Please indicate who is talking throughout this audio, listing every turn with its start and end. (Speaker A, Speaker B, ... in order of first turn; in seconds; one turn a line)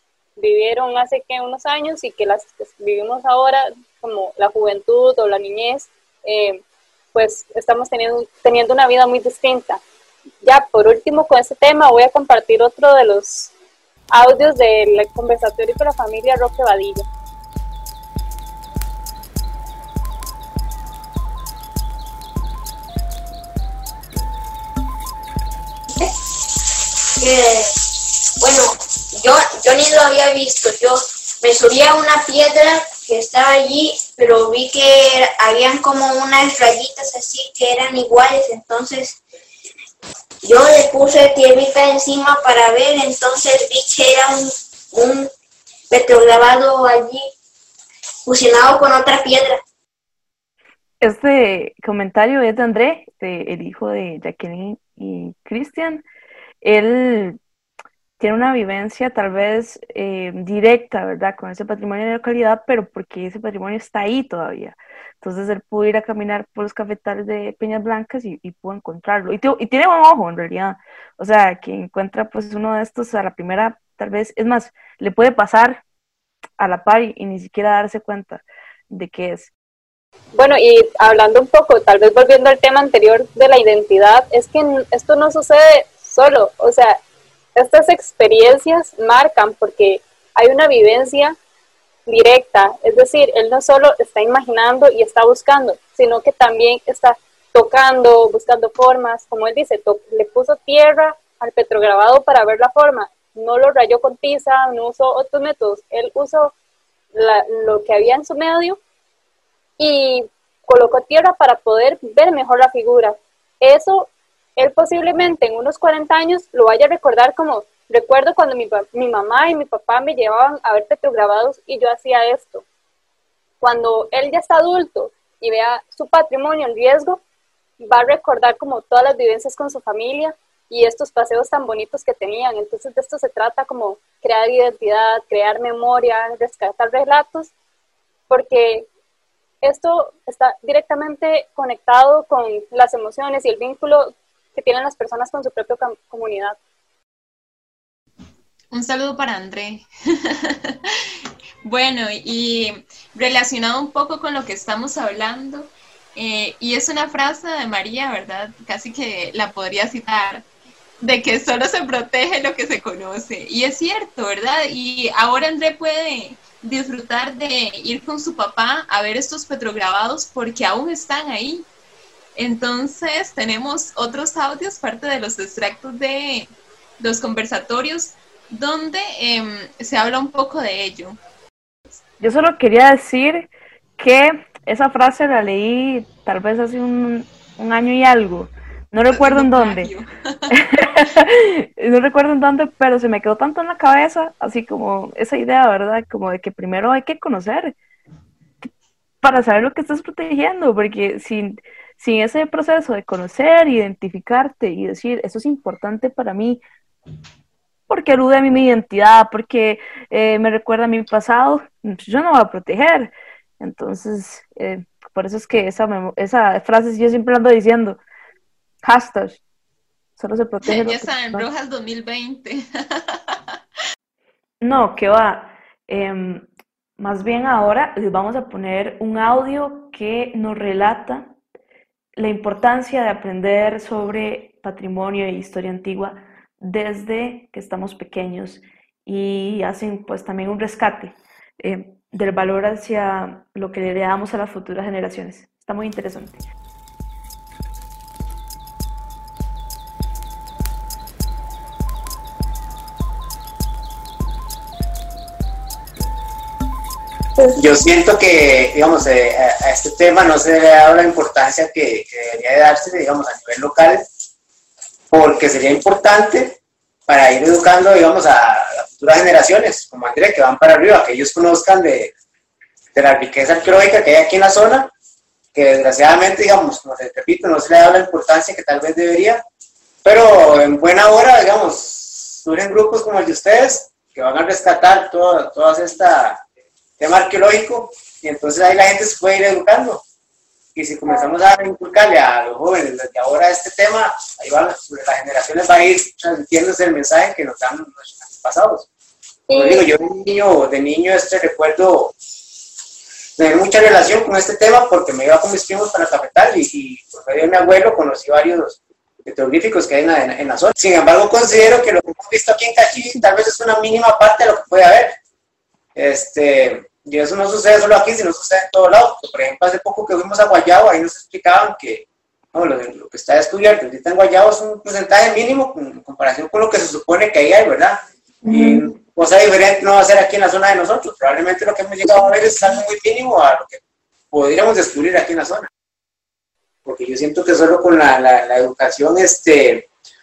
Speaker A: 0.4-6.6
Speaker A: 7.1-9.8
Speaker A: 10.4-13.5
Speaker A: 14.1-17.1
Speaker B: 27.2-39.2
Speaker B: 40.4-45.3
Speaker B: 45.9-47.3
Speaker B: 48.2-49.6
Speaker C: 51.0-56.0
Speaker C: 56.6-57.4
Speaker C: 58.2-75.8
Speaker C: 76.6-79.5
Speaker A: 80.3-87.0
Speaker A: 87.5-91.3
Speaker A: 92.1-106.5
Speaker A: 107.1-108.8
Speaker A: 109.8-122.6
Speaker A: 123.6-127.2
Speaker A: 127.8-137.5
Speaker A: 138.3-138.9
Speaker A: 139.6-146.6
Speaker D: 148.7-150.9
Speaker D: 151.6-160.5
Speaker D: 161.0-171.7
Speaker D: 172.3-181.2
Speaker C: 182.2-189.9
Speaker D: 189.1-190.6
Speaker C: 190.5-197.8
Speaker C: 199.2-206.6
Speaker C: 207.9-218.0
Speaker C: 218.8-219.4
Speaker C: 220.2-221.5
Speaker D: 220.7-223.4
Speaker C: 224.6-231.3
Speaker C: 232.2-246.4
Speaker E: 257.5-264.0
Speaker E: 265.1-272.1
Speaker E: 272.9-274.9
Speaker E: 275.5-279.4
Speaker E: 280.0-286.4
Speaker E: 287.0-290.0
Speaker E: 290.7-298.9
Speaker A: 299.5-299.9
Speaker E: 299.5-302.1
Speaker E: 303.4-315.1
Speaker E: 315.9-333.8
Speaker C: 328.5-328.8
Speaker E: 334.3-335.7
Speaker E: 336.8-339.9